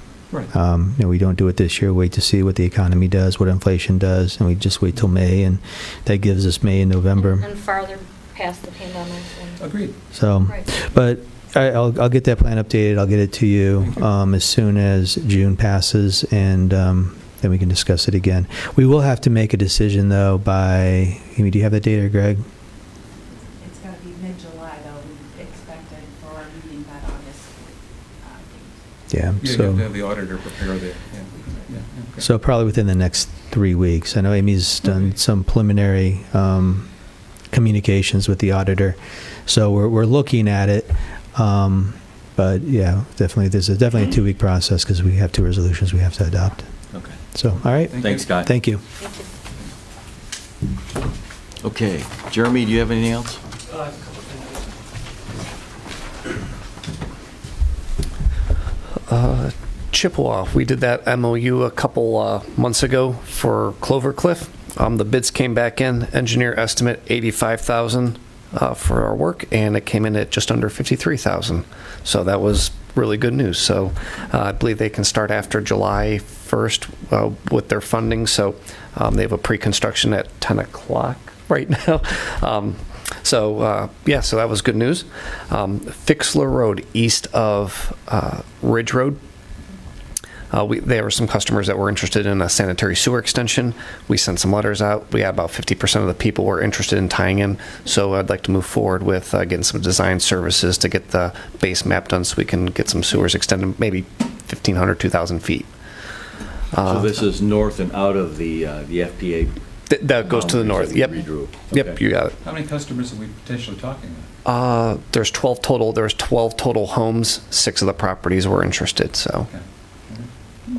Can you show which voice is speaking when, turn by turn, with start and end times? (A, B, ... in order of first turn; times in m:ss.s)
0:00.5-0:07.4 A
0:07.2-0:09.6 B
0:09.6-0:10.0 C
0:10.1-0:22.4 A
0:23.6-0:28.8 D
0:29.1-0:29.8 A
0:29.4-0:32.3 C
0:32.2-0:36.9 A
0:37.5-0:46.7 A
0:46.9-0:47.2 E
0:47.3-0:48.8 A
0:47.9-0:48.4 C
0:48.0-0:48.5 E
0:49.0-0:49.3 B
0:51.6-0:53.4 E
0:59.1-1:29.2 F
1:30.5-1:45.7 F
1:46.7-1:47.2 F
1:46.8-1:49.6 E
1:49.9-1:52.4 F
1:50.2-1:52.0 E
1:52.4-1:54.3 C
1:54.4-1:59.5 F
1:59.5-2:00.3 C